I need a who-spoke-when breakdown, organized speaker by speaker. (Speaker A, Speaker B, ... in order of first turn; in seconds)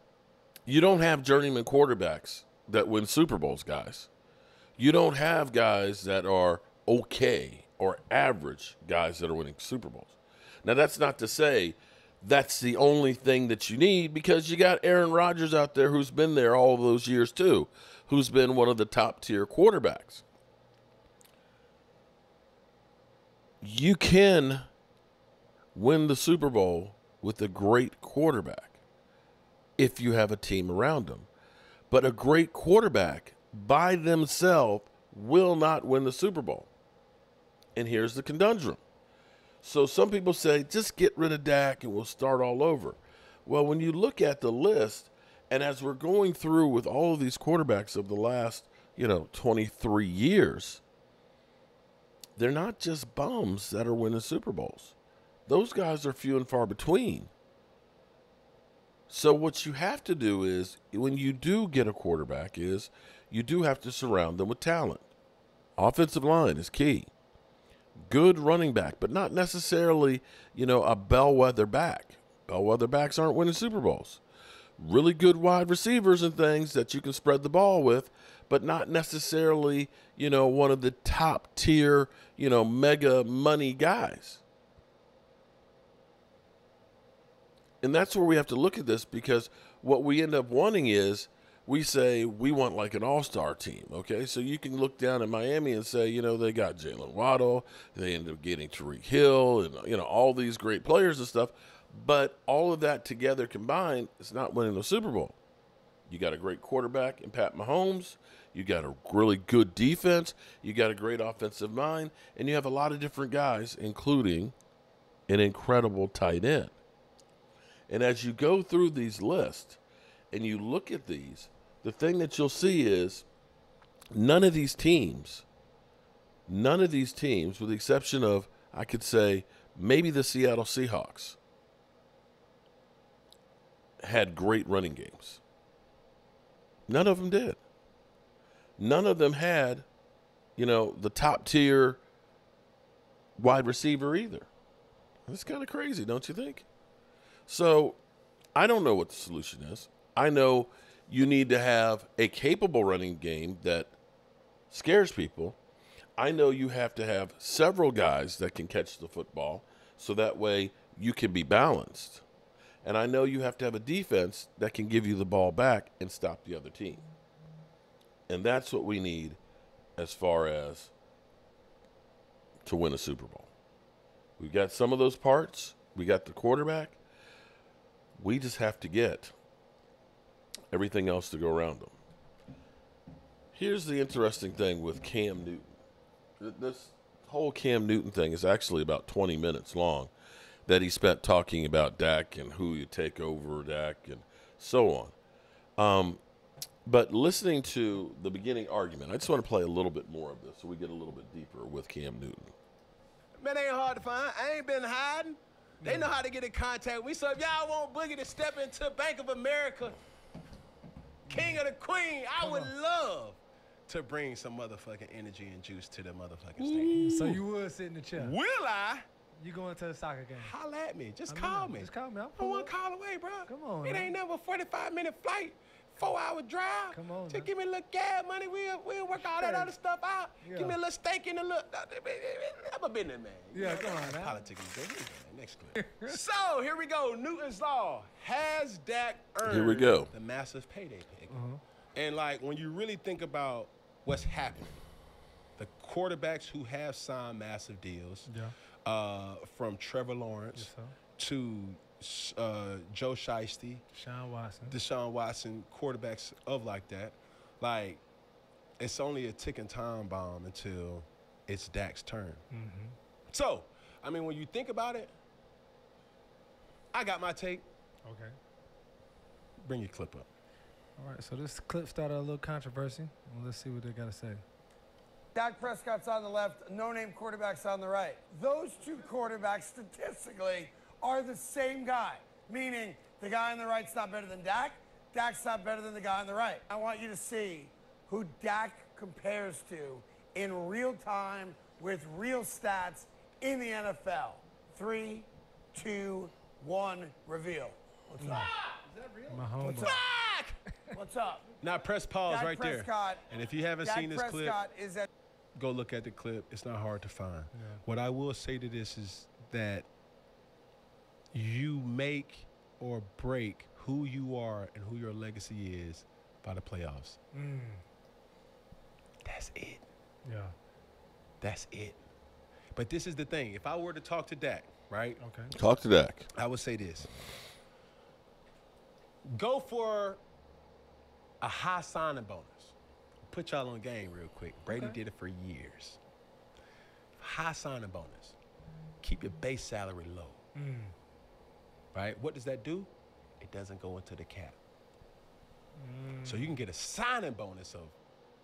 Speaker A: 0.7-4.1, 4.8-20.2, 23.6-24.7, 25.7-28.8, 29.8-31.3, 31.9-36.7, 37.8-38.8, 39.6-50.8, 52.4-54.9, 55.5-57.3, 59.1-65.1, 65.8-67.1, 68.0-74.2, 74.8-84.4, 87.8-105.3, 106.1-114.5, 115.3-116.7, 117.9-119.8, 120.3-123.2, 124.1-125.4, 126.5-131.4, 134.0-135.4, 136.9-137.6, 138.8-139.8, 140.6-142.0, 143.4-144.5, 145.3-146.6, 147.5-148.0, 148.5-153.9, 154.7-155.6, 156.2-162.2, 162.8-167.0, 168.3-169.4, 170.0-170.9, 172.6-173.5, 174.4-177.0, 178.2-179.3, 180.7-181.9, 183.5-185.6, 186.4-190.1, 190.7-195.1, 195.8-196.2, 196.8-202.5, 239.4-240.1, 325.5-326.3
Speaker B: 203.4-209.9, 211.3-217.4, 218.2-219.1, 220.4-241.4, 241.9-244.8, 245.6-248.3, 248.8-253.8, 254.7-258.0, 258.8-262.4, 263.3-265.1, 266.9-267.6, 269.6-270.3, 299.7-300.6, 301.6-304.6, 305.5-309.9, 311.3-317.2, 319.2-319.8, 321.4-322.0, 322.7-325.2, 326.3-327.1, 329.2-330.2, 331.4-332.7, 333.3-336.0, 337.2-338.4, 339.0-340.4, 341.9-344.6, 346.2-347.9
Speaker C: 205.8-206.1, 211.3-211.6, 212.4-212.7, 216.6-218.3, 219.4-220.5, 221.3-222.7, 223.5-224.1, 226.9-227.5, 229.1-229.7, 230.4-230.8, 233.5-234.4, 235.8-236.2, 241.3-241.6, 248.2-248.5, 250.5-251.0, 253.9-254.8, 262.5-263.0, 268.0-268.4, 271.0-274.4, 298.2-298.5, 299.3-300.0, 307.5-307.8, 317.3-317.8, 320.2-320.5, 325.2-325.5, 334.7-335.0, 340.5-340.9, 345.8-346.6
Speaker D: 275.3-300.0, 300.9-301.6, 302.2-303.3, 303.8-305.1